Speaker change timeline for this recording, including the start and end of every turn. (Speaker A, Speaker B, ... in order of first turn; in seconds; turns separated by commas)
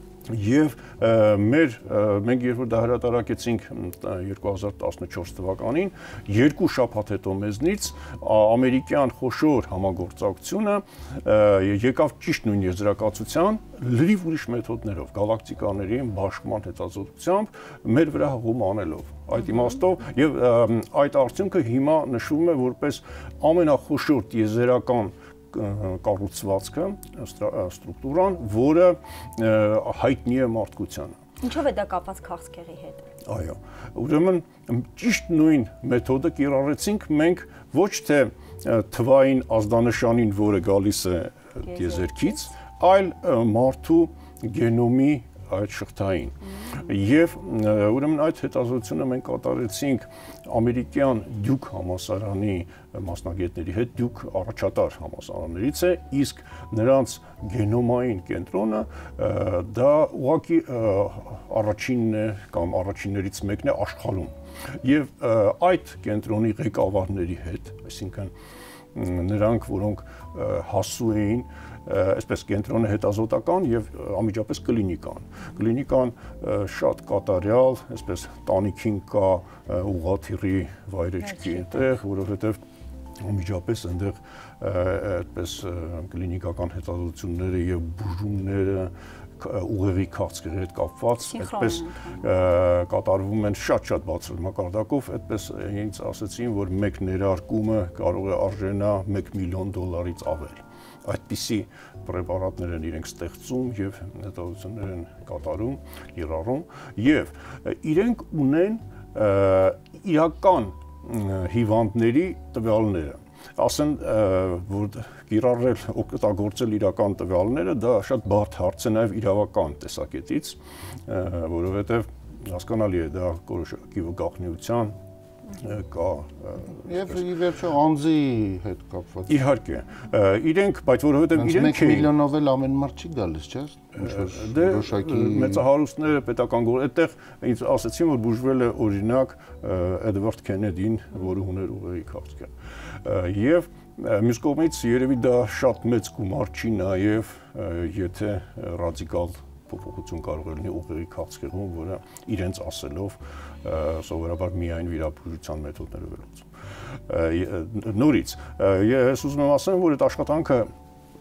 Speaker A: 0.3-31.2, Speaker B: 31.4-33.1, Speaker A: 33.2-68.3, Speaker B: 41.7-42.3, Speaker A: 68.9-82.6, Speaker A: 83.2-125.0, Speaker B: 91.2-92.1, Speaker A: 125.5-127.2, Speaker C: 126.8-129.4, Speaker A: 129.3-132.1, Speaker C: 131.3-135.6, Speaker A: 134.0-142.5, Speaker A: 143.0-156.5, Speaker A: 157.1-160.7